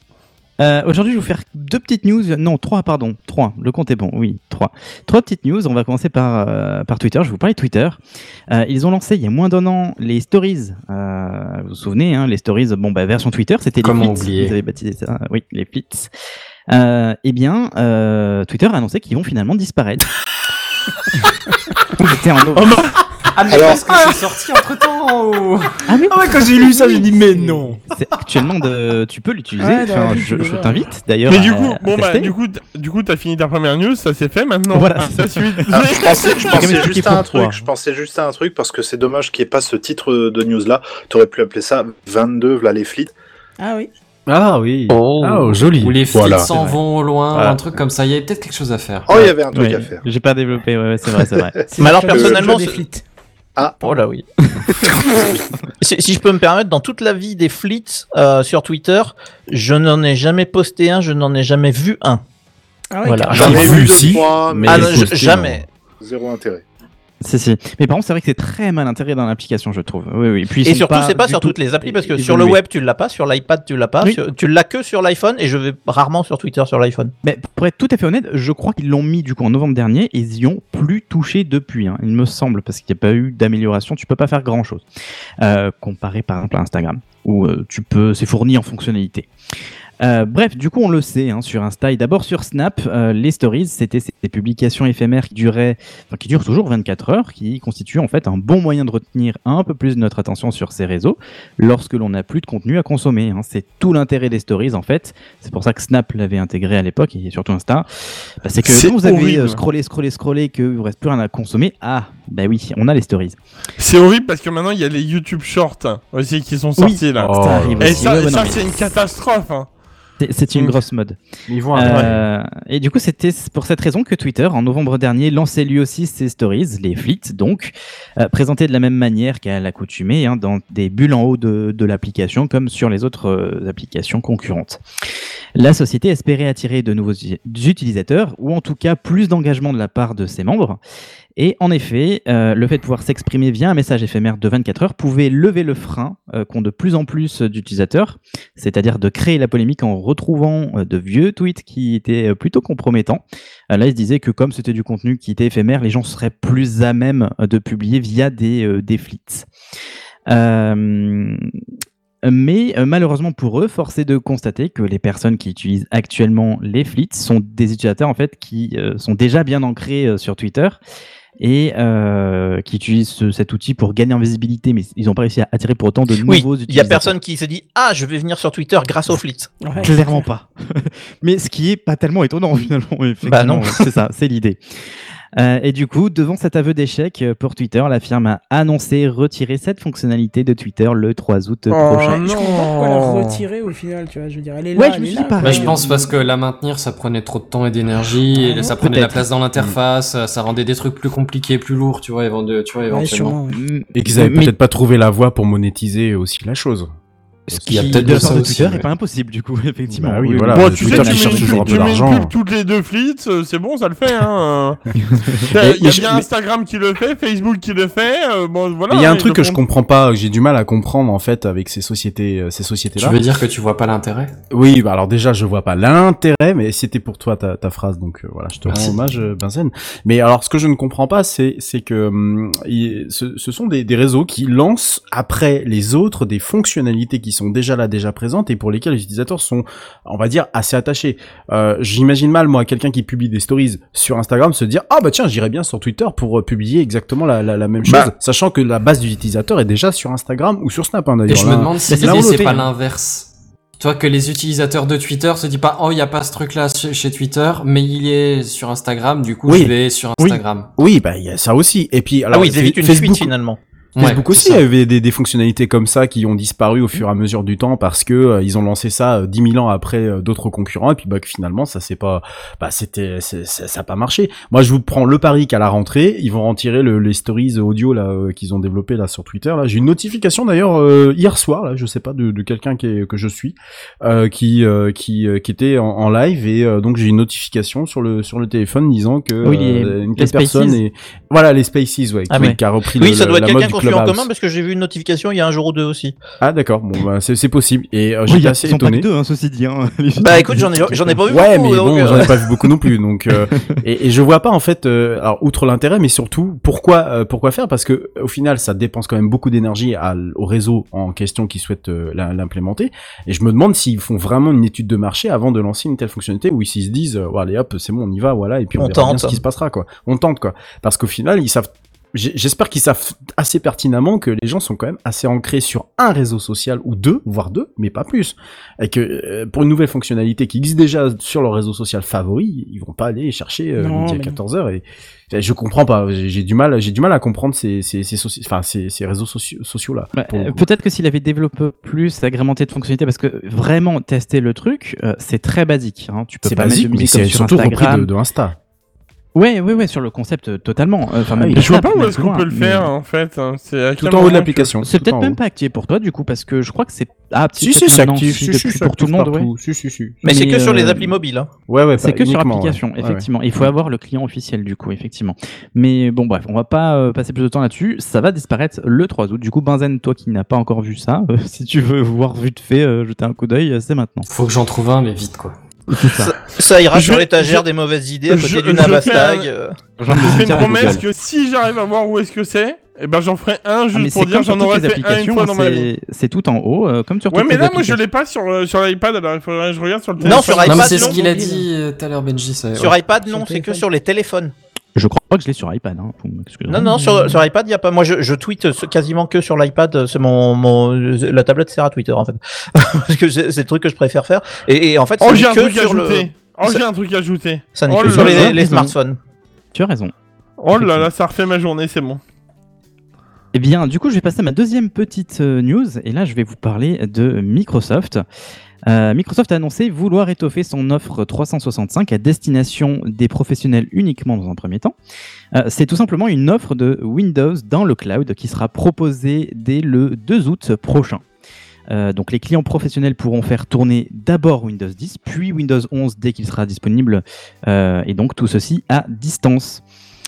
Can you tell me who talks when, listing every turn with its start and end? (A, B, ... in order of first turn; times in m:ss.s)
0:00.6-0:16.1 A
0:13.8-0:14.6 B
0:16.7-0:20.1 A
0:22.0-0:22.9 A
0:23.3-0:25.7 B
0:23.5-0:23.8 C
0:25.9-0:27.1 A
0:26.1-0:27.8 D
0:27.0-0:27.8 E
0:27.9-0:32.3 A
0:29.6-0:30.8 E
0:31.3-0:36.7 F
0:34.7-0:35.8 A
0:35.8-0:43.1 C
0:36.5-0:37.6 A
0:43.6-0:43.9 E
0:44.3-0:46.0 D
0:44.9-0:45.6 G
0:45.8-0:49.3 B
0:46.1-0:46.6 C
0:47.3-0:47.6 D
0:49.1-0:50.0 C
0:49.5-0:51.5 A
0:51.4-0:52.7 C
0:51.7-0:53.0 E
0:51.8-0:52.8 G
0:53.6-0:54.0 C
0:53.8-0:54.3 G
0:55.8-1:02.2 G
1:02.9-1:04.0 E
1:03.0-1:05.6 G
1:03.3-1:05.2 C
1:03.3-1:05.6 D
1:06.0-1:06.6 C
1:07.2-1:12.6 A
1:10.6-1:17.1 G
1:17.2-1:24.8 A
1:25.4-1:29.3 A
1:30.0-1:47.9 A
1:48.4-1:53.4 A
1:48.6-1:49.6 F
1:53.8-1:59.7 F
1:56.8-1:58.7 A
1:57.2-1:58.2 D
2:00.2-2:14.8 A
2:01.5-2:02.2 D
2:15.6-2:20.8 A
2:21.4-2:39.5 A
2:40.3-2:41.5 A
2:42.2-2:50.8 A
2:51.4-2:57.2 A
2:56.2-2:59.8 G
2:59.6-3:00.3 E
2:59.8-3:04.6 A
3:03.2-3:03.8 G
3:05.4-3:12.2 A
3:11.7-3:13.4 F
3:12.1-3:16.0 E
3:14.8-3:15.9 A
3:15.4-3:23.4 B
3:18.5-3:19.3 A
3:22.9-3:23.6 E
3:23.5-3:24.4 A
3:24.0-3:26.9 D
3:27.5-3:28.7 D
3:27.5-3:32.1 A
3:27.7-3:28.9 B
3:29.9-3:32.3 D
3:30.5-3:34.8 F
3:35.0-3:35.5 A
3:35.5-3:39.6 F
3:35.9-3:36.2 G
3:38.9-3:43.2 D
3:43.0-3:44.3 B
3:44.5-4:12.7 D
3:48.7-3:49.0 B
4:11.3-4:20.7 B
4:11.9-4:12.6 A
4:19.5-4:23.3 D
4:22.3-4:23.6 G
4:24.0-4:24.6 B
4:24.0-4:54.3 D
4:49.4-4:50.8 A
4:52.3-4:56.2 G
4:56.4-4:59.1 D
4:58.3-5:01.3 A
5:00.2-5:02.4 G
5:01.3-5:40.6 D
5:18.8-5:19.4 G
5:33.8-5:34.4 E
5:40.2-5:48.1 A
5:46.4-5:48.6 D
5:49.4-5:52.9 A
5:51.3-5:51.7 D
5:51.6-5:54.7 F
5:54.0-5:55.4 D
5:54.8-5:59.5 A
5:57.6-6:00.2 D
6:00.2-6:01.5 G
6:00.3-6:01.1 A
6:01.7-6:03.7 D
6:02.0-6:14.3 A
6:14.3-6:15.5 B
6:15.9-6:16.3 A
6:16.0-6:19.8 G
6:16.9-6:17.7 F
6:18.3-6:19.5 F
6:20.0-6:21.0 A
6:20.1-6:25.9 F
6:23.9-6:28.0 A
6:27.3-6:31.0 F
6:30.2-6:31.7 E
6:30.2-6:31.2 G
6:30.6-6:33.0 B
6:32.8-6:34.5 G
6:33.2-6:33.8 E
6:35.0-6:37.2 A
6:36.7-6:46.8 G
6:45.2-6:48.6 F
6:47.7-6:49.2 G
6:48.0-6:49.0 A
6:49.7-6:50.1 A
6:50.6-6:52.2 F
6:50.7-6:51.0 A
6:53.5-6:58.2 A
6:58.9-7:05.0 A
7:05.6-7:11.2 A
7:11.9-7:19.8 A